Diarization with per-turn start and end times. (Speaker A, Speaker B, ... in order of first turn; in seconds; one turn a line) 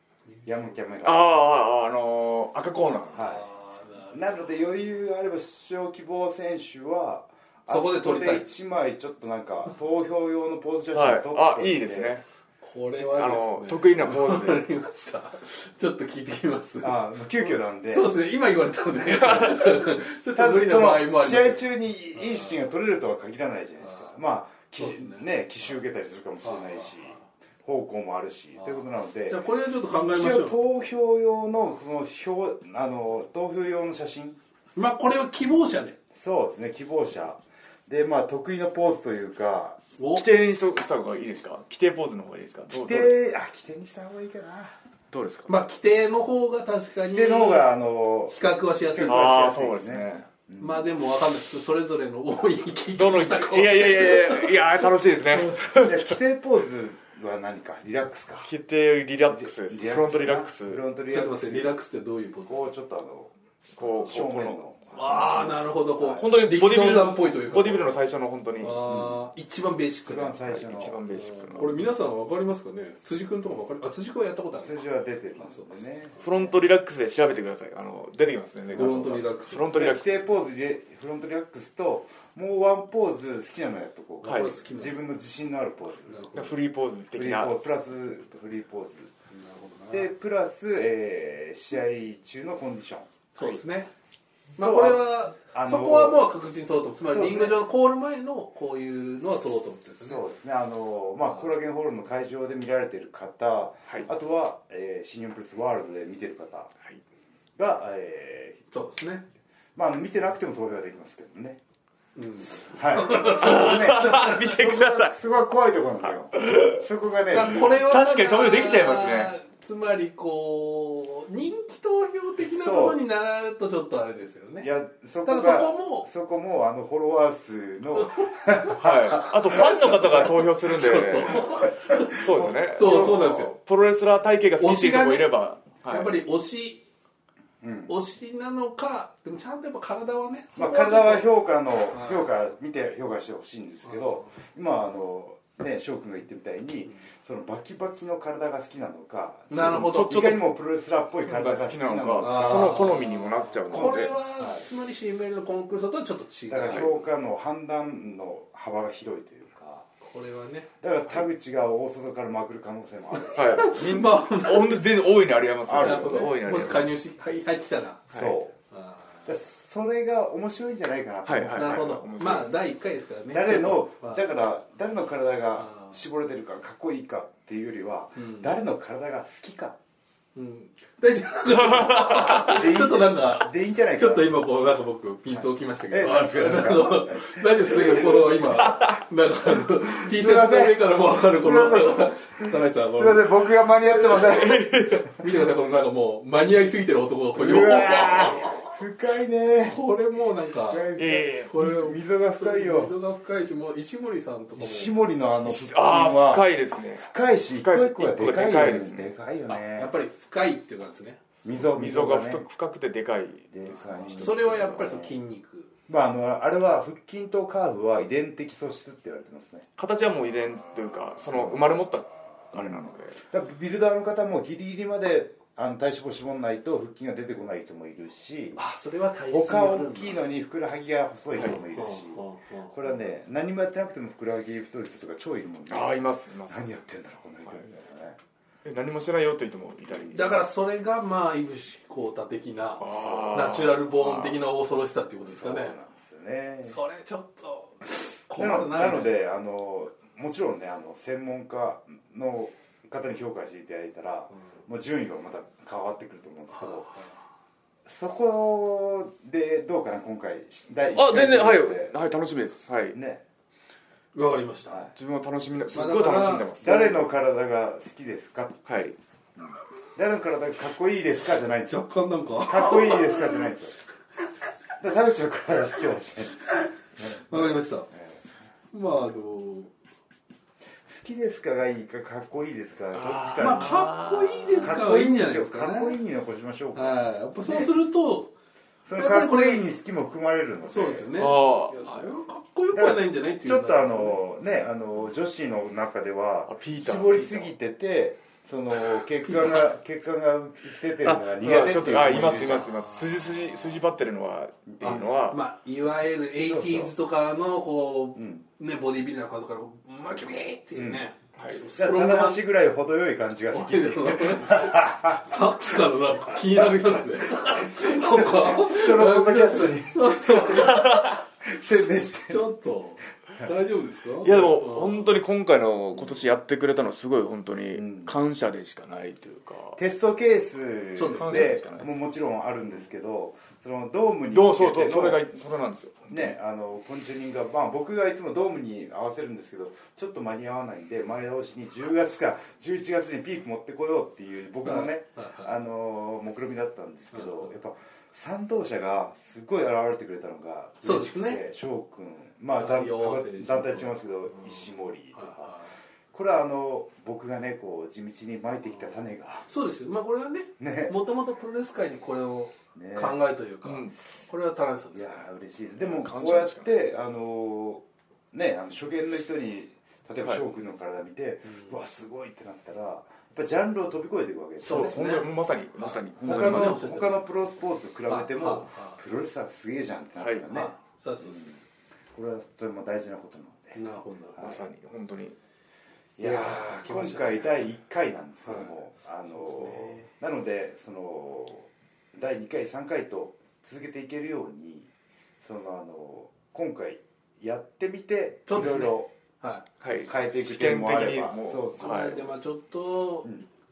Speaker A: 0.3-0.9
Speaker B: 0.4-1.3
Speaker C: 1.0-3.3
Speaker A: 3.1-4.4
Speaker B: 3.1-3.5
Speaker B: 4.1-12.1
Speaker A: 7.7-8.4
Speaker C: 10.9-12.2
Speaker A: 12.6-22.6
Speaker C: 12.9-14.6
Speaker B: 16.8-18.1
Speaker B: 19.3-19.7
Speaker B: 20.3-34.4
Speaker A: 23.8-24.1
Speaker A: 24.8-25.8
Speaker A: 26.4-27.2
Speaker A: 28.5-30.6
Speaker A: 34.8-36.0
Speaker B: 36.1-39.8
Speaker A: 40.0-40.3
Speaker C: 40.1-43.1
Speaker B: 42.8-44.7
Speaker C: 45.1-45.5
Speaker A: 45.5-47.7
Speaker B: 47.1-50.9
Speaker A: 48.3-49.7
Speaker C: 49.0-50.3
Speaker A: 50.6-54.6
Speaker C: 52.9-56.2
Speaker B: 55.7-58.5
Speaker C: 58.4-60.8
Speaker B: 59.3-61.8
Speaker A: 61.1-62.7
Speaker B: 62.5-66.2
Speaker C: 63.8-64.6
Speaker A: 64.9-68.0
Speaker C: 66.2-68.8
Speaker A: 68.6-70.5
Speaker B: 68.8-69.2
Speaker B: 70.0-71.0
Speaker C: 70.5-71.9
Speaker A: 71.1-74.8
Speaker B: 74.6-76.5
Speaker A: 75.4-75.8
Speaker C: 76.2-80.2
Speaker A: 78.7-79.7
Speaker B: 78.8-86.4
Speaker C: 84.2-84.5
Speaker A: 84.2-85.0
Speaker A: 86.1-86.5
Speaker C: 86.3-87.6
Speaker B: 87.1-89.1
Speaker A: 89.3-90.1
Speaker B: 89.9-93.1
Speaker A: 93.3-93.9
Speaker A: 94.6-100.2
Speaker B: 94.6-96.2
Speaker B: 97.1-97.6
Speaker B: 100.0-106.7
Speaker B: 107.6-108.6
Speaker A: 108.7-109.3
Speaker B: 109.8-111.6
Speaker A: 112.2-114.7
Speaker B: 112.7-117.8
Speaker C: 113.3-115.1
Speaker C: 116.0-116.8
Speaker A: 117.3-124.7
Speaker C: 117.5-119.3
Speaker B: 122.4-123.0
Speaker B: 124.6-130.4
Speaker A: 125.2-126.1
Speaker A: 128.0-133.5
Speaker C: 128.8-131.6
Speaker B: 131.9-133.2
Speaker C: 132.1-136.2
Speaker A: 134.6-135.3
Speaker A: 135.8-136.8
Speaker B: 137.6-137.9
Speaker A: 137.9-141.3
Speaker B: 140.6-152.9
Speaker A: 141.9-142.3
Speaker A: 143.8-144.3
Speaker A: 149.5-150.3
Speaker C: 149.8-150.4
Speaker C: 151.2-154.1
Speaker A: 152.2-157.1
Speaker B: 153.7-154.7
Speaker B: 156.5-159.9
Speaker A: 160.0-160.7
Speaker B: 160.8-163.7
Speaker A: 163.1-164.8
Speaker C: 163.3-166.9
Speaker B: 165.7-166.3
Speaker A: 165.8-168.1
Speaker B: 168.1-168.6
Speaker A: 168.7-169.3
Speaker B: 169.2-172.4
Speaker C: 171.2-172.5
Speaker A: 171.5-174.2
Speaker B: 173.3-179.8
Speaker A: 175.6-175.9
Speaker A: 178.1-178.5
Speaker A: 180.3-198.7
Speaker C: 181.5-182.6
Speaker B: 182.3-184.3
Speaker B: 185.3-188.8
Speaker C: 188.6-188.9
Speaker B: 189.6-194.8
Speaker C: 194.3-195.0
Speaker B: 197.3-199.8
Speaker A: 199.6-205.0
Speaker B: 200.7-202.9
Speaker C: 201.0-201.5
Speaker B: 204.6-209.9
Speaker C: 205.4-209.2
Speaker A: 209.5-211.6
Speaker B: 211.4-212.4
Speaker C: 211.6-214.9
Speaker B: 213.5-215.2
Speaker A: 214.2-215.7
Speaker B: 215.9-219.7
Speaker C: 219.8-223.2
Speaker B: 221.3-221.6
Speaker B: 222.5-228.6
Speaker A: 228.6-230.2
Speaker B: 229.3-238.2
Speaker A: 231.7-232.8
Speaker C: 235.7-236.7
Speaker C: 238.6-240.4
Speaker A: 240.1-245.8
Speaker C: 242.8-244.3
Speaker B: 242.9-243.7
Speaker B: 245.2-246.8
Speaker A: 246.6-249.2
Speaker B: 248.3-256.9
Speaker A: 256.5-257.1
Speaker B: 257.9-261.9
Speaker C: 260.9-263.0
Speaker B: 262.9-263.2
Speaker A: 264.1-264.8
Speaker B: 264.7-264.9
Speaker C: 264.9-267.0
Speaker A: 265.7-267.0
Speaker B: 266.5-268.6
Speaker C: 268.6-269.0
Speaker B: 269.4-271.8
Speaker A: 271.6-273.5
Speaker B: 272.4-273.8
Speaker B: 274.8-278.3
Speaker A: 277.1-277.9
Speaker A: 278.7-279.7
Speaker B: 280.9-283.9
Speaker C: 282.9-284.8
Speaker A: 283.4-286.0
Speaker B: 284.6-287.7
Speaker A: 286.7-288.3
Speaker B: 288.9-291.1
Speaker A: 288.9-289.7
Speaker A: 290.6-294.2
Speaker C: 291.1-292.1
Speaker B: 292.7-302.7
Speaker C: 296.5-297.5
Speaker A: 299.2-299.7
Speaker C: 301.0-305.4
Speaker A: 301.6-303.7
Speaker B: 304.7-305.0
Speaker A: 304.8-312.4
Speaker B: 306.4-306.9
Speaker B: 308.1-308.4
Speaker B: 310.8-311.0
Speaker C: 311.4-311.6
Speaker B: 311.8-315.5
Speaker A: 313.5-321.0
Speaker B: 317.5-322.4
Speaker C: 320.5-321.2
Speaker A: 322.3-325.1
Speaker C: 324.2-329.8
Speaker B: 327.7-328.1
Speaker B: 329.8-335.2
Speaker A: 330.9-331.5
Speaker C: 331.1-332.0
Speaker C: 334.3-336.4
Speaker B: 336.1-355.6
Speaker A: 344.6-345.5
Speaker A: 347.1-347.5
Speaker A: 350.8-351.4
Speaker A: 352.6-355.7
Speaker B: 356.1-359.5
Speaker A: 359.4-365.2
Speaker B: 360.6-360.9
Speaker B: 362.7-363.2
Speaker C: 363.6-363.9
Speaker B: 364.9-375.0
Speaker C: 365.8-366.8
Speaker A: 371.5-371.7
Speaker A: 374.6-377.2
Speaker C: 374.6-376.8
Speaker B: 376.2-381.6
Speaker A: 378.1-379.0
Speaker C: 380.2-380.5
Speaker A: 380.5-381.6
Speaker B: 382.1-383.8
Speaker A: 383.7-384.5
Speaker C: 384.4-385.4
Speaker B: 386.2-394.9
Speaker A: 386.2-387.6
Speaker A: 388.4-388.7
Speaker A: 389.3-390.1
Speaker B: 395.4-399.1
Speaker A: 398.5-399.6
Speaker C: 399.8-402.2
Speaker B: 400.1-402.3
Speaker A: 401.8-403.3